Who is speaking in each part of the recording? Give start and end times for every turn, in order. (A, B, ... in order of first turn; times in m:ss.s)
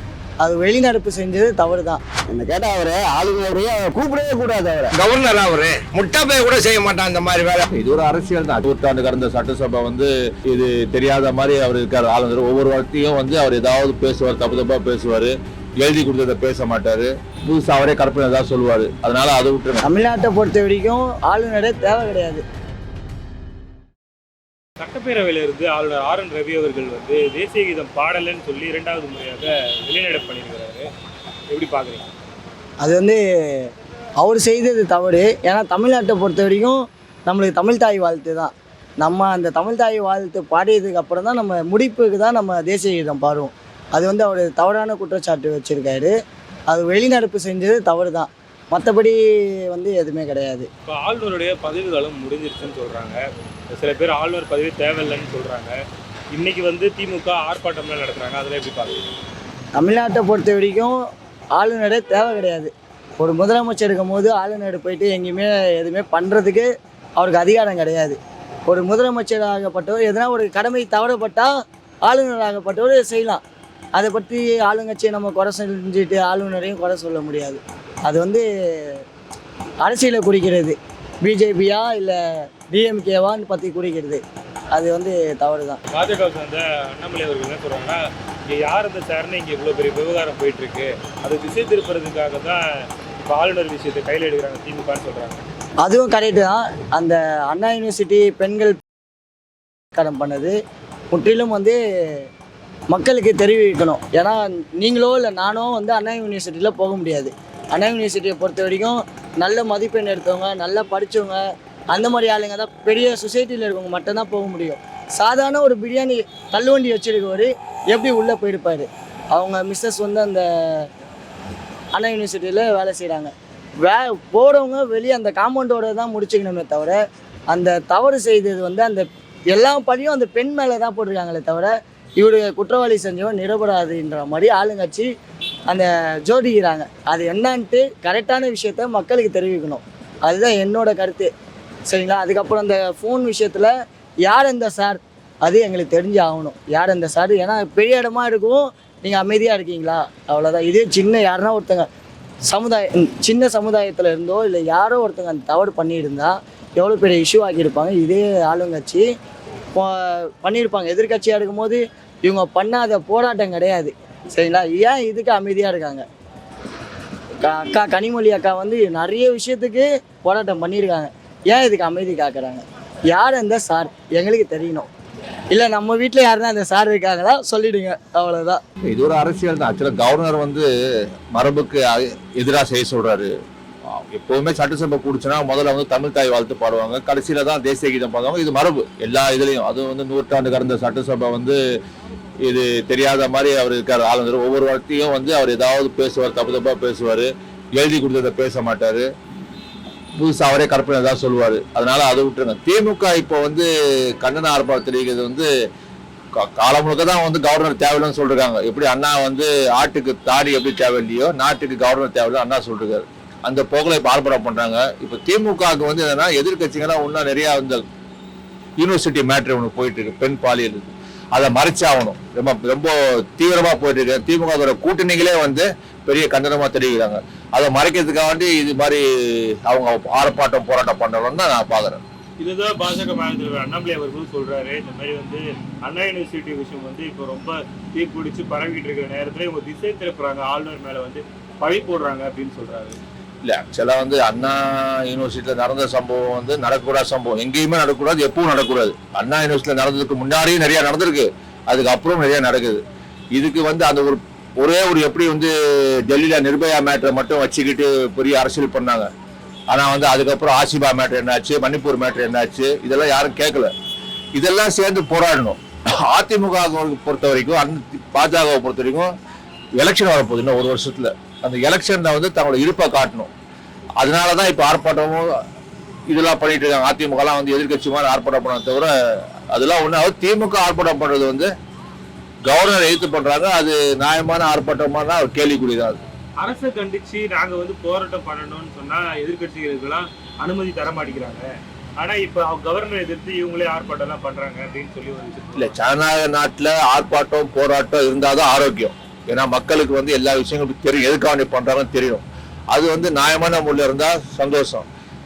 0:00.4-0:02.0 A
0:02.3-0:04.9 B
0:04.9-0:07.7 C
0:07.7-0:19.8 D
0:19.8-0:22.4 A
0:24.8-0:30.8 E
0:31.5-0:32.0 E
0:32.8-0:33.2 A
0:34.2-0:46.1 A
0:46.7-0:50.7 A
0:50.9-0:53.2 E
0:53.7-0:55.7 E
0:56.3-0:59.0 E
0:59.8-1:01.0 A
1:01.6-1:11.5 A
1:12.0-1:13.4 A
1:14.0-1:19.0 A
1:19.8-1:22.2 A
1:22.7-1:24.2 A
1:24.7-1:25.8 A
1:25.9-1:32.6 E
1:33.3-1:35.4 E
1:35.8-1:38.8 A
1:39.9-1:40.5 A
1:41.1-1:41.8 A
1:42.9-2:00.9 A
2:01.9-2:07.0 A
2:07.5-2:15.1 A
2:15.7-2:21.3 A
2:21.9-2:23.7 A
2:24.2-2:31.9 A
2:32.5-2:39.0 A
2:39.7-2:46.0 A
2:47.4-2:54.9 A
2:55.5-2:58.6 A
2:58.9-3:00.7 D
3:01.3-3:03.3 D
3:03.9-3:11.6 D
3:12.4-3:19.1 D
3:20.2-3:23.7 D
3:24.2-3:25.5 D
3:26.4-3:37.8 D
3:38.8-3:49.0 D
3:49.7-3:52.0 D
3:52.4-4:03.0 E
4:03.4-4:12.8 D
4:13.3-4:15.5 D
4:16.1-4:19.1 D
4:19.7-4:23.7 D
4:24.4-4:29.1 D
4:29.8-4:33.3 D
4:34.0-4:35.2 D
4:36.1-4:38.9 D
4:39.5-4:41.5 D
4:42.4-4:46.0 D
4:46.4-4:51.4 E
4:52.0-4:55.7 E
4:55.6-5:04.8 D